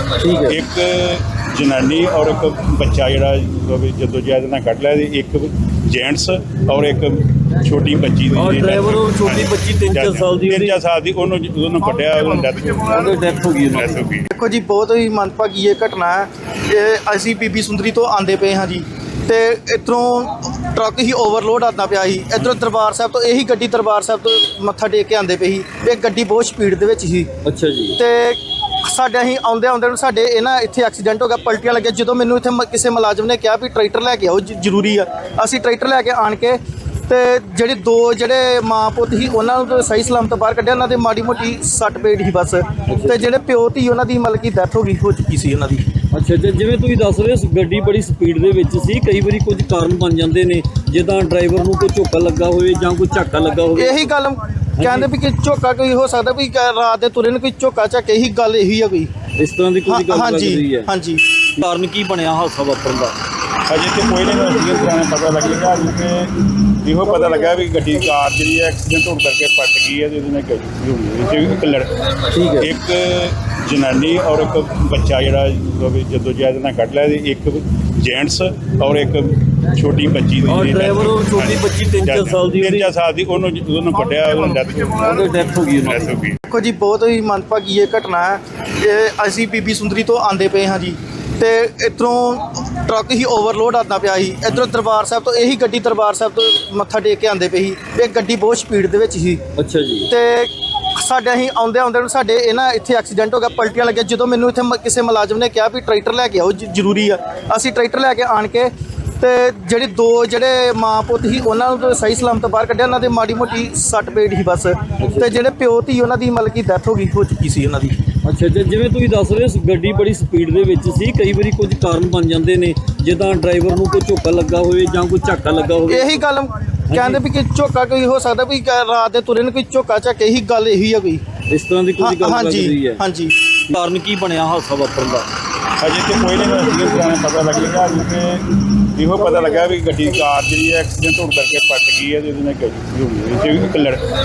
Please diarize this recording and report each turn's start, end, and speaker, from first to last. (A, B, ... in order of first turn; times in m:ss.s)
0:00.2-0:00.6 A
0:00.5-0:14.3 B
0:08.4-0:10.7 A
0:13.0-0:13.9 A
0:14.3-0:27.3 C
0:27.4-0:28.0 A
0:28.0-0:45.8 C
0:42.9-0:43.2 A
0:46.1-0:54.1 A
0:53.8-0:59.1 C
0:54.8-0:55.1 A
0:59.4-1:00.9 A
0:59.9-1:01.2 C
1:01.6-1:03.2 A
1:03.7-1:06.3 B
1:06.8-1:11.9 B
1:12.3-1:12.7 A
1:12.6-1:25.1 B
1:20.6-1:22.9 A
1:25.0-1:26.0 A
1:25.8-1:26.4 B
1:26.5-1:39.4 C
1:39.6-1:40.1 A
1:40.1-1:57.9 C
1:55.0-1:55.3 A
1:58.2-2:06.2 A
2:05.9-2:11.2 C
2:06.9-2:07.2 A
2:11.5-2:13.0 A
2:12.0-2:13.4 C
2:13.7-2:15.3 A
2:15.8-2:18.4 B
2:19.0-2:24.0 B